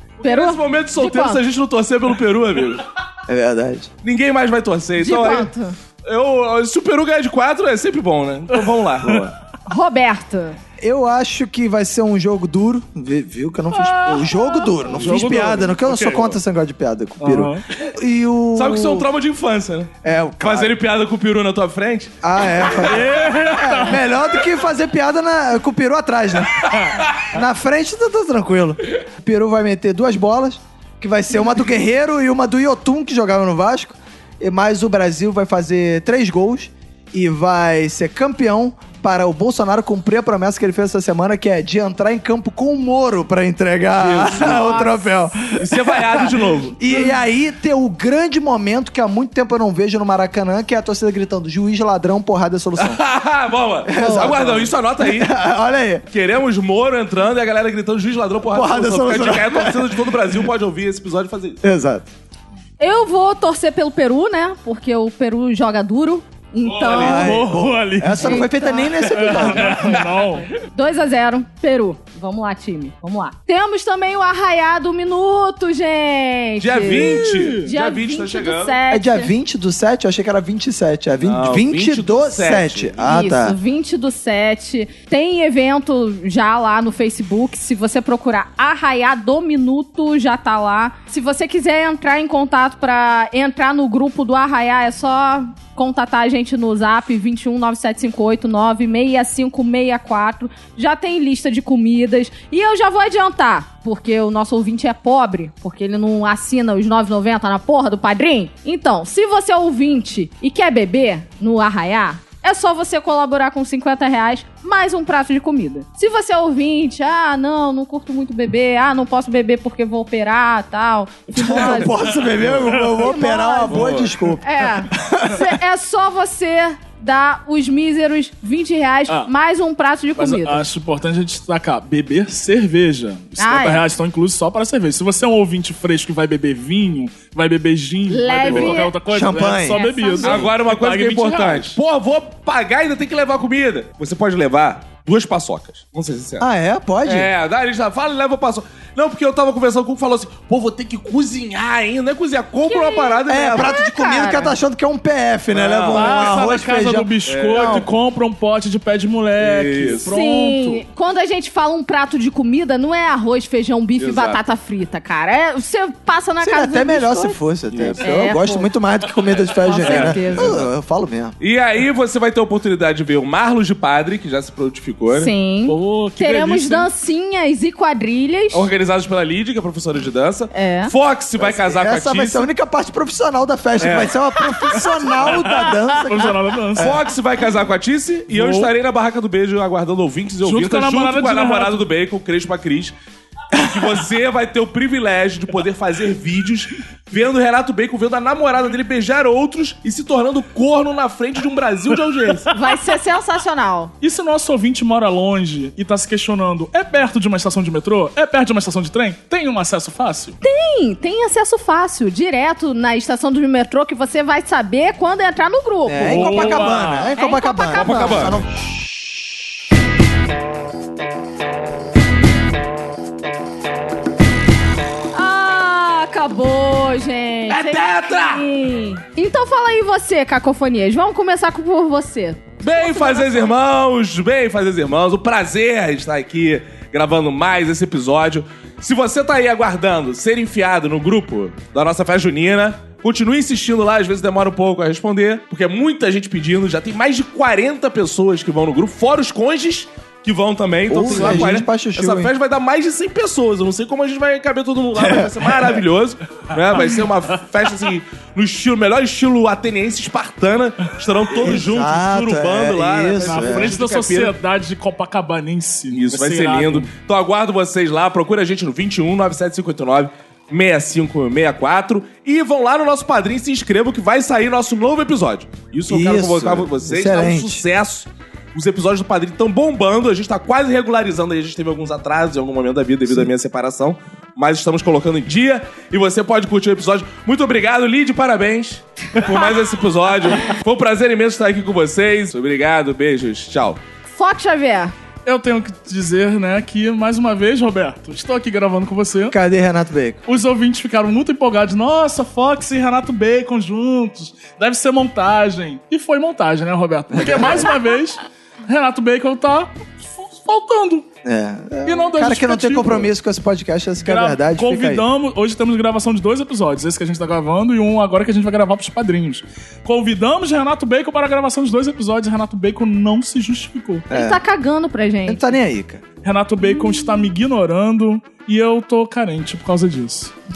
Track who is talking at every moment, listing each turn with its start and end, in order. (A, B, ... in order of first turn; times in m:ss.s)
0:00.2-0:02.8 A
0:00.2-0:01.4 B
0:03.3-0:03.9 C
0:04.0-0:05.5 A
0:05.0-0:05.8 B
0:06.0-0:09.3 A
0:08.5-0:09.2 D
0:09.7-0:10.6 B
0:10.8-0:19.1 C
0:13.7-0:16.4 D
0:17.2-0:17.6 D
0:18.5-0:22.9 A
0:20.0-0:20.7 C
0:22.2-0:53.0 C
0:22.8-0:24.0 D
0:44.0-0:44.7 A
0:44.4-0:45.1 B
0:45.6-0:46.8 A
0:52.8-0:55.3 A
0:53.8-0:56.0 C
0:54.0-0:54.3 B
0:56.1-1:01.6 A
0:58.5-1:00.0 C
1:01.6-1:02.1 C
1:02.8-1:07.4 B
1:06.6-1:07.2 A
1:06.9-1:10.0 C
1:06.9-1:10.5 D
1:08.2-1:19.3 B
1:16.6-1:18.8 A
1:16.9-1:17.7 D
1:18.9-1:23.6 C
1:21.2-1:23.2 A
1:23.1-2:10.6 B
2:01.3-2:05.6 C
2:03.7-2:04.2 A
2:10.2-2:21.8 D
2:13.4-2:13.8 B
2:18.1-2:19.0 B
2:18.5-2:19.8 C
2:19.6-2:20.5 B
2:20.2-2:26.5 A
2:26.4-2:27.3 C
2:27.0-2:33.7 A
2:32.7-2:34.6 B
2:33.3-2:37.9 C
2:35.5-2:36.4 A
2:35.9-2:40.8 D
2:37.2-2:37.9 A
2:39.4-2:40.1 A
2:40.0-2:47.4 B
2:44.0-2:44.4 A
2:46.4-2:51.4 C
2:47.7-2:48.0 A
2:48.0-2:48.7 B
2:49.6-2:50.6 B
2:49.8-2:50.7 A
2:51.4-2:55.3 A
2:55.1-2:58.7 B
2:55.6-2:56.9 D
2:58.5-3:02.5 A
3:00.5-3:00.9 B
3:01.4-3:07.0 C
3:03.8-3:04.2 A
3:04.7-3:07.0 D
3:06.8-3:12.9 A
3:08.3-3:08.7 D
3:10.4-3:11.9 D
3:13.5-3:22.5 A
3:22.5-3:22.8 D
3:22.5-3:23.9 B
3:24.0-3:30.4 D
3:30.4-3:38.4 B
3:35.8-3:38.5 C
3:36.0-3:37.1 D
3:37.7-3:38.4 A
3:45.1-3:53.5 B
3:47.5-3:48.5 A
3:52.6-4:24.4 A
4:10.9-4:12.3 C
4:11.1-4:11.6 D
4:15.0-4:15.8 C
4:21.4-4:23.8 C
4:23.2-4:26.9 D
4:25.9-4:53.8 A
4:35.9-4:37.6 C
4:54.1-4:54.9 B
4:55.2-4:59.4 D
4:59.3-5:00.2 C
5:00.3-5:11.1 D
5:07.2-5:07.6 C
5:11.2-5:15.0 C
5:11.8-5:13.1 D
5:14.0-5:24.1 D
5:24.1-5:24.4 C
5:24.1-5:25.5 B
5:25.3-5:26.0 C
5:26.2-5:30.3 D